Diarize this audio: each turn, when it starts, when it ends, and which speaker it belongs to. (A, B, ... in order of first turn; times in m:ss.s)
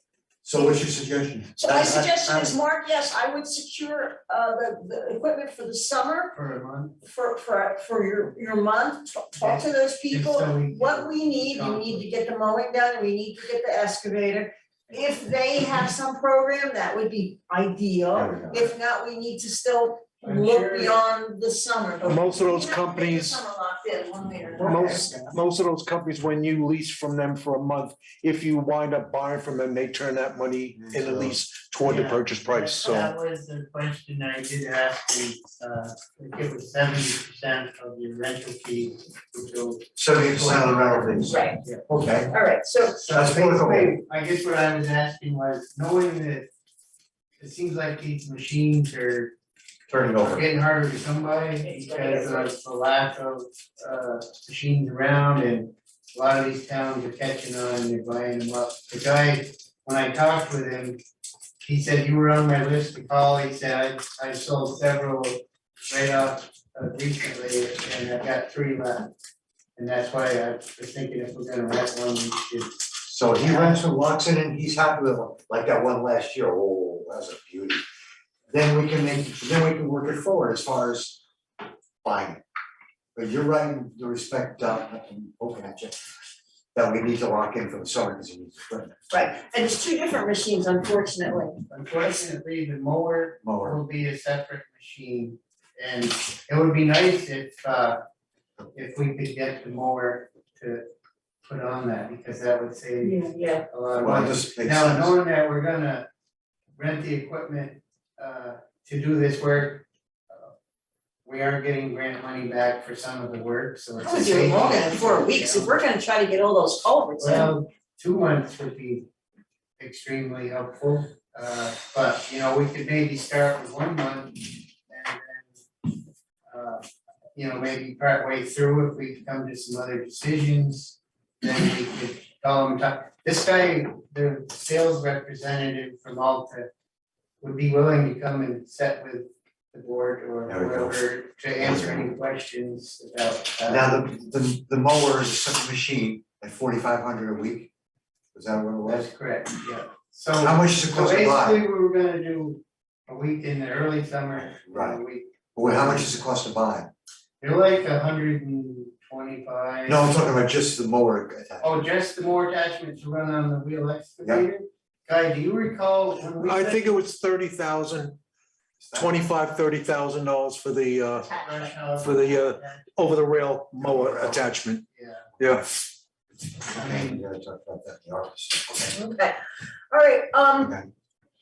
0:00.4-0:02.6 A
0:01.6-0:06.3 B
0:06.3-0:07.0 C
0:07.0-0:25.2 B
0:09.4-0:12.0 C
0:18.1-0:18.7 A
0:20.2-0:21.0 C
0:22.0-0:23.4 D
0:24.6-0:33.1 D
0:24.8-0:25.3 C
0:30.7-0:31.4 A
0:31.8-0:41.8 C
0:40.0-0:42.3 A
0:41.2-0:41.6 B
0:42.3-0:43.0 B
0:42.9-0:46.5 C
0:43.1-0:44.0 A
0:47.4-0:49.3 C
0:49.9-0:50.4 A
0:50.2-1:01.0 C
0:51.6-0:52.5 B
1:01.6-1:09.1 C
1:09.8-1:12.8 C
1:13.1-1:17.8 A
1:13.4-1:13.8 C
1:18.5-1:21.2 A
1:22.0-1:22.4 A
1:23.1-1:26.0 A
1:26.7-1:29.0 A
1:29.1-1:31.6 B
1:31.7-1:38.0 C
1:33.4-1:33.8 A
1:38.7-1:40.8 C
1:41.4-1:46.0 C
1:43.0-1:43.6 B
1:44.0-1:45.2 A
1:46.8-1:50.5 C
1:51.2-1:55.8 C
1:54.0-1:57.5 B
1:57.2-1:59.1 C
1:59.8-2:05.9 C
2:06.5-2:06.8 C
2:07.3-2:16.7 C
2:17.4-2:24.0 C
2:20.5-2:21.0 A
2:21.6-2:22.1 A
2:23.7-2:27.7 A
2:28.3-2:29.1 A
2:28.8-2:35.9 C
2:30.4-2:31.6 A
2:34.4-2:35.0 A
2:35.5-2:36.9 A
2:37.4-2:40.1 C
2:39.9-2:41.8 A
2:41.6-2:47.0 C
2:46.4-2:48.2 D
2:48.8-2:49.2 A
2:48.9-2:51.3 D
2:51.3-2:53.1 C
2:51.3-2:51.7 B
2:52.0-2:54.8 D
2:53.9-2:54.3 C
2:54.9-2:55.3 C
2:55.4-2:55.7 D
2:56.7-2:58.9 A
2:56.7-2:57.2 C
2:58.9-2:59.4 B
2:59.9-3:00.7 B
3:00.6-3:00.9 A